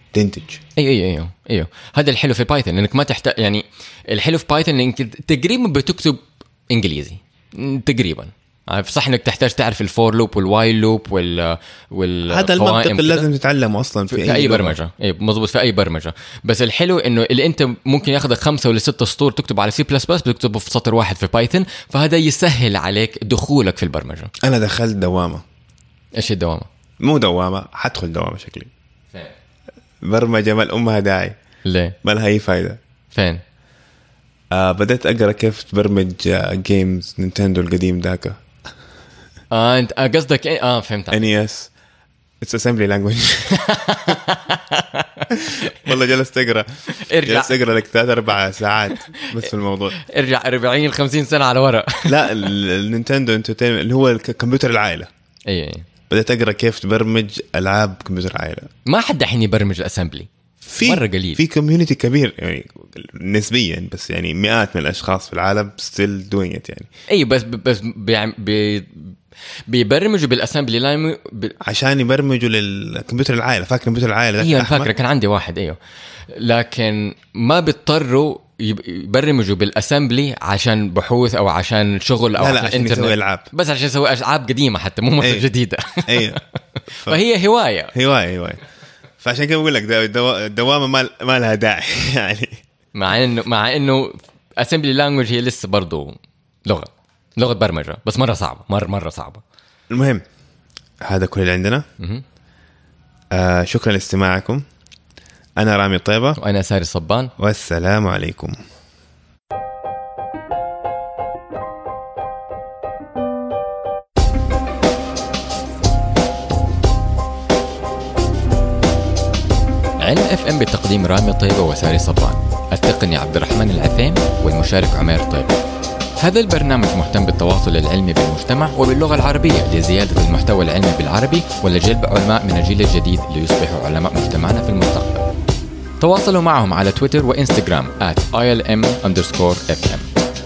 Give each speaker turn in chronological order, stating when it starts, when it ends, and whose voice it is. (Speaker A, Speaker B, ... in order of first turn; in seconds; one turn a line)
Speaker A: 0.1-0.6
Speaker B: 0.8-13.3
Speaker A: 12.3-14.8
Speaker B: 14.1-24.3
Speaker A: 24.4-25.4
Speaker B: 26.1-26.7
Speaker A: 27.0-28.7
Speaker A: 30.0-31.4
Speaker B: 31.6-32.0
Speaker A: 32.0-32.8
Speaker B: 33.1-33.4
Speaker A: 34.5-38.4
Speaker B: 39.5-41.2
Speaker A: 41.1-41.7
Speaker A: 42.4-44.2
Speaker B: 43.5-45.9
Speaker A: 45.3-50.0
Speaker B: 46.9-47.6
Speaker B: 49.1-52.5
Speaker A: 52.1-55.1
Speaker B: 55.5-55.9
Speaker A: 56.1-58.7
Speaker B: 58.9-60.3
Speaker A: 60.6-66.9
Speaker B: 60.8-61.4
Speaker B: 67.1-69.2
Speaker B: 69.7-71.6
Speaker A: 71.6-74.9
Speaker B: 74.4-75.8
Speaker B: 76.3-86.4
Speaker A: 82.4-83.5
Speaker A: 85.2-85.5
Speaker A: 86.1-86.4
Speaker A: 86.9-87.2
Speaker B: 87.0-87.9
Speaker A: 87.9-88.6
Speaker A: 89.2-92.6
Speaker B: 93.0-99.4
Speaker A: 99.9-100.2
Speaker A: 101.0-101.9
Speaker B: 102.0-102.2
Speaker A: 103.3-104.7
Speaker A: 105.6-106.4
Speaker B: 106.4-107.3
Speaker A: 107.4-108.6
Speaker B: 120.0-125.6
Speaker B: 126.2-135.3
Speaker B: 136.0-140.1